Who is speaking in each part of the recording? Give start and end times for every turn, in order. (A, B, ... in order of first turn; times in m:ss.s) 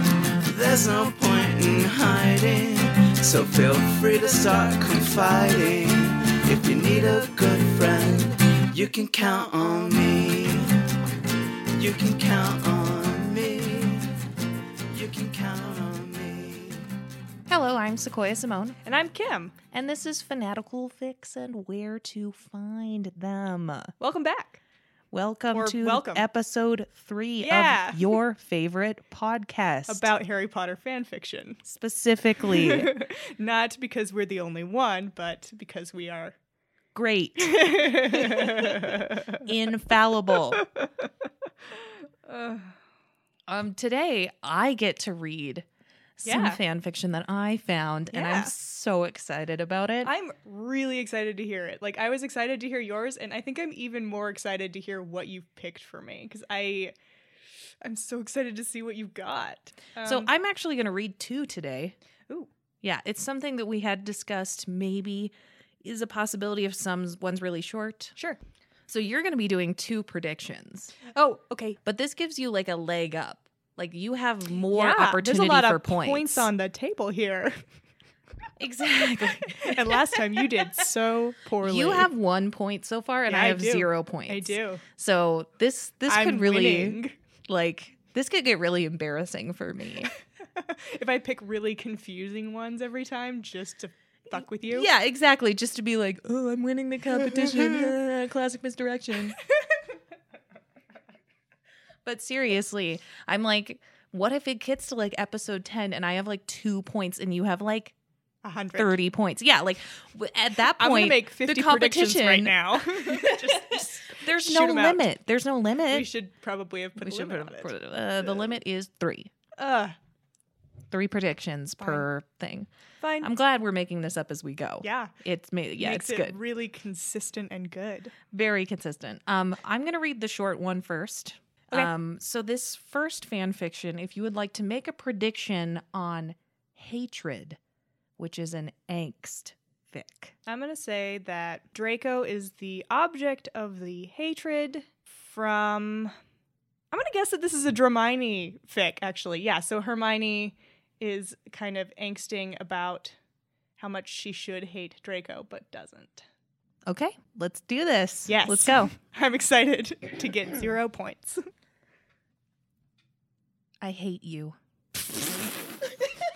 0:00.4-0:10.8 A
0:11.8-0:14.1 A
0:14.9-0:16.9 A
0:17.5-0:18.8 B
0:18.8-0:19.6 C
0:19.7-0:23.9 B
0:24.0-0:24.6 C
0:25.1-0:30.1 B
0:25.5-0:26.2 C
0:27.4-0:28.2 C
0:29.9-0:31.6 C
0:31.6-0:32.9 B
0:32.4-0:36.4 C
0:37.0-0:40.6 B
0:37.4-0:39.4 C
0:40.6-0:40.8 C
0:42.2-0:42.7 C
0:43.5-0:45.7 B
0:46.2-0:50.1 B
0:46.2-0:46.6 C
0:48.1-0:48.5 C
0:50.0-0:57.0 C
0:57.8-1:00.3 C
1:00.0-1:02.0 B
1:02.8-1:08.2 B
1:08.9-1:11.0 B
1:11.1-1:11.8 C
1:11.8-1:16.5 B
1:14.7-1:17.6 C
1:18.6-1:20.2 B
1:19.6-1:22.1 C
1:21.6-1:30.1 B
1:23.3-1:24.8 C
1:26.1-1:27.2 C
1:30.6-1:34.9 C
1:34.4-1:39.4 B
1:37.6-1:37.9 C
1:42.0-1:47.9 B
1:48.4-1:49.0 C
1:48.8-1:56.1 B
1:50.8-1:55.1 C
1:55.9-1:57.7 C
1:57.0-1:59.3 B
1:59.6-2:00.0 C
2:00.9-2:02.7 B
2:01.8-2:02.1 C
2:03.0-2:03.3 C
2:03.2-2:06.4 B
2:04.8-2:05.1 C
2:05.8-2:08.1 C
2:08.3-2:17.6 B
2:18.2-2:20.3 B
2:20.5-2:26.1 C
2:26.9-2:33.2 C
2:33.8-2:36.3 C
2:36.9-2:38.9 B
2:38.3-2:41.4 C
2:43.8-2:44.6 B